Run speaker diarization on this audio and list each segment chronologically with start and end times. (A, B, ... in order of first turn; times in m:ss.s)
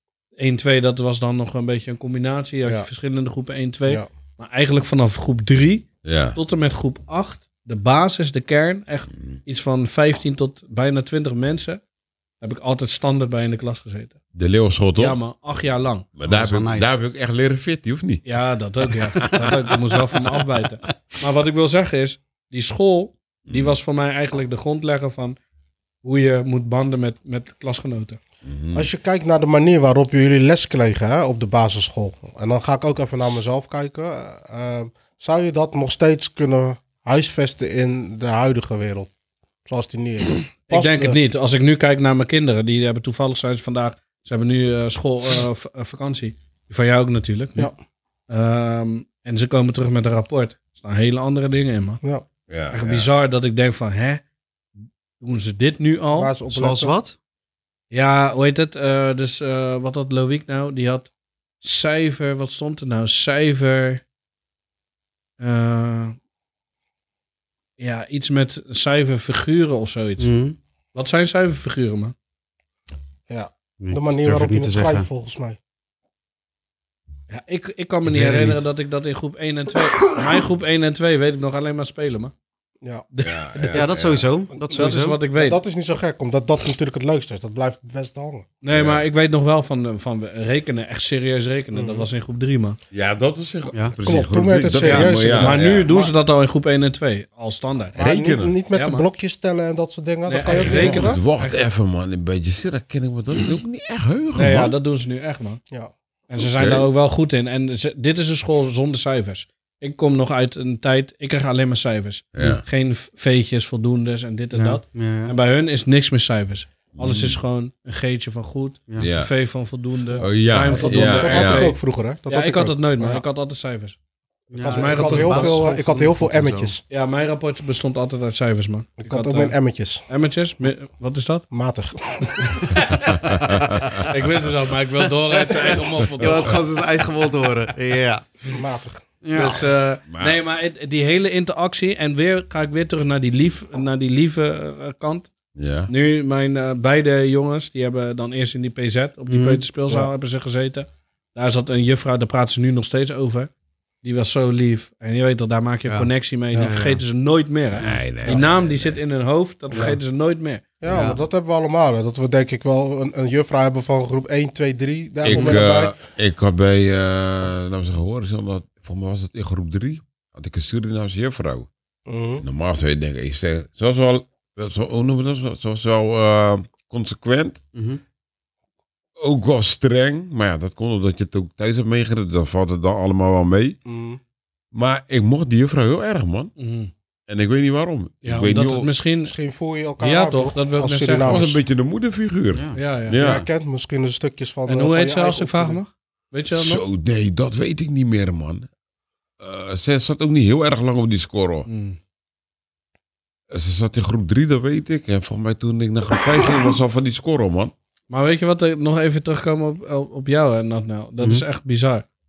0:00.4-0:11.8 A
0:06.0-0:06.4 B
0:12.4-0:14.2 A
0:14.3-0:15.2 B
0:15.0-0:16.0 A
0:16.2-0:18.2 B
0:16.2-0:17.0 C
0:18.2-0:25.4 A
0:23.5-0:23.8 B
0:26.0-0:28.2 A
0:28.4-0:28.9 B
0:28.7-0:39.1 D
0:39.6-0:41.2 D
0:40.7-0:47.7 A
0:48.3-0:52.0 A
0:52.5-0:53.1 B
0:52.7-0:54.2 A
0:55.2-0:56.3 A
0:56.2-0:56.9 D
0:56.5-0:57.2 C
0:57.9-1:01.1 A
1:01.6-1:04.0 A
1:05.4-1:06.2 A
1:07.8-1:10.3 A
1:10.2-1:10.6 C
1:10.9-1:12.1 A
1:13.3-1:15.6 D
1:13.8-1:15.1 C
1:17.3-1:22.3 A
1:18.1-1:18.6 C
1:23.1-1:23.9 A
1:23.2-1:24.3 B
1:23.6-1:25.2 C
1:24.7-1:25.6 A
1:25.4-1:28.5 D
1:28.6-1:32.8 A
1:28.7-1:29.0 B
1:31.7-1:32.1 D
1:32.9-1:35.9 B
1:34.0-1:36.1 D
1:34.8-1:38.0 A
1:38.0-1:38.5 B
1:38.0-1:41.2 D
1:38.7-1:39.0 A
1:40.3-1:41.7 A
1:40.4-1:44.7 B
1:44.3-1:45.6 A
1:46.3-2:04.0 A
1:46.4-1:46.9 B
1:52.4-1:52.6 B
1:54.5-1:55.3 C
1:57.0-1:57.4 B
1:59.0-1:59.3 B
2:00.2-2:01.7 B
2:00.7-2:03.2 D
2:04.5-2:06.7 C
2:04.6-2:06.8 D
2:04.6-2:05.6 A
2:06.9-2:09.6 A
2:09.0-2:10.0 D
2:10.1-2:11.4 A
2:11.5-2:12.7 D
2:12.4-2:13.4 A
2:13.1-2:14.0 B
2:13.5-2:14.1 C
2:14.0-2:16.6 A
2:15.4-2:18.5 C
2:18.5-2:19.0 D
2:19.2-2:19.7 C
2:19.3-2:25.3 A
2:20.1-2:20.4 B
2:25.6-2:25.9 B
2:25.9-2:33.5 A
2:29.3-2:29.6 C
2:34.0-2:40.6 A
2:35.9-2:37.0 C
2:37.8-2:39.0 B
2:40.8-2:46.0 D
2:40.9-2:41.2 C
2:45.2-2:51.7 B
2:45.3-2:45.6 C
2:52.1-2:52.4 D
2:52.4-2:57.6 B
2:57.7-2:58.0 C
2:59.2-3:03.8 B
3:03.8-3:04.2 D
3:04.7-3:06.5 B
3:06.6-3:06.9 A
3:07.3-3:08.9 B
3:08.2-3:09.3 A
3:09.2-3:11.6 D
3:10.0-3:11.4 A
3:11.2-3:13.4 B
3:12.5-3:12.8 C
3:12.7-3:13.2 A
3:13.2-3:15.8 D
3:14.7-3:16.8 A
3:16.5-3:18.7 B
3:19.4-3:21.7 B
3:21.6-3:22.0 A
3:23.5-3:27.7 B
3:28.1-3:32.0 A